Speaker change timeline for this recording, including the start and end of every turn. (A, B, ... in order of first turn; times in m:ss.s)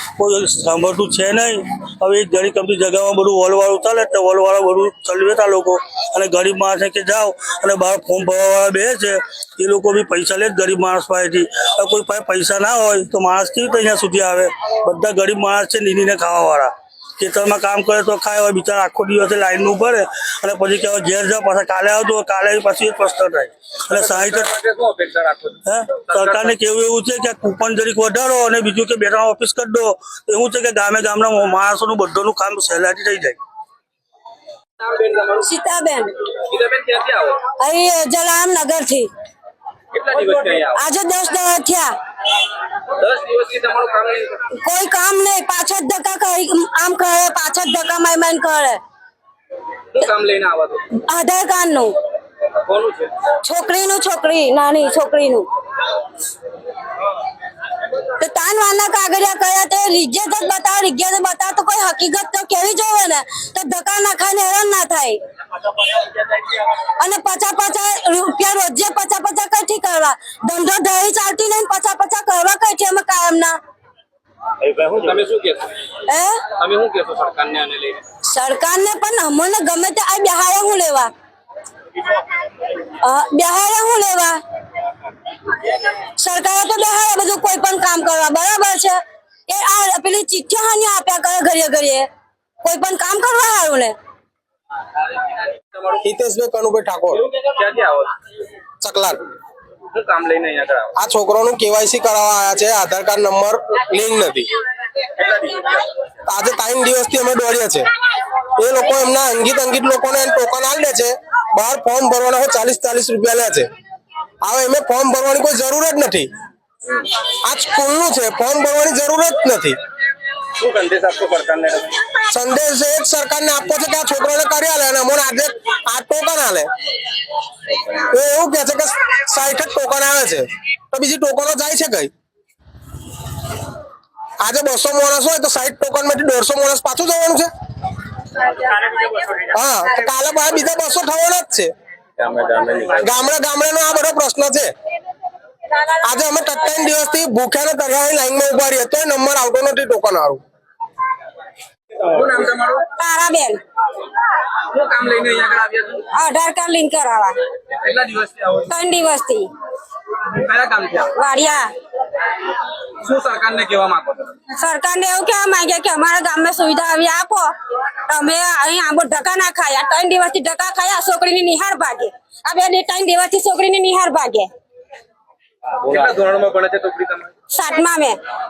0:00.2-0:24.5 A
0:23.9-0:25.6 B
0:25.7-0:33.4 A
0:26.1-0:26.5 B
0:34.8-0:35.5 B
0:35.4-0:36.1 C
0:36.5-0:37.4 B
0:37.6-0:39.1 C
0:39.9-0:40.8 B
0:40.8-0:41.9 C
0:43.0-0:44.4 B
0:44.6-0:48.8 C
0:50.0-0:50.8 B
0:50.9-0:51.9 C
0:52.7-0:53.1 B
0:53.4-0:55.5 C
0:58.2-1:05.2 C
1:07.0-1:13.6 C
1:14.7-1:15.7 B
1:16.1-1:16.5 C
1:16.5-1:18.0 B
1:18.3-1:21.1 C
1:23.0-1:24.4 C
1:26.2-1:32.1 C
1:32.6-1:33.9 C
1:36.0-1:37.2 D
1:37.4-1:38.1 B
1:38.8-1:39.2 D
1:39.9-1:40.9 B
1:41.0-1:44.5 D
1:45.2-1:45.8 B
1:46.3-1:47.9 D
1:48.6-1:53.7 D
1:54.4-1:56.3 D
1:57.5-1:59.8 D
2:00.6-2:02.0 B
2:02.3-2:06.7 D
2:08.1-2:12.1 D
2:14.4-2:17.5 D
2:19.5-2:21.7 D
2:22.2-2:23.0 B
2:23.0-2:24.7 D
2:26.0-2:30.4 D
2:32.1-2:32.8 B
2:33.0-2:33.6 C
2:34.7-2:36.1 B
2:36.1-2:37.4 C
2:37.9-2:38.6 B
2:38.7-2:39.5 C
2:40.4-2:41.1 B
2:41.1-2:41.7 C
2:43.0-2:44.3 B
2:44.5-2:47.5 C
2:48.1-2:54.5 C
2:55.9-2:57.3 B
2:57.5-2:58.2 C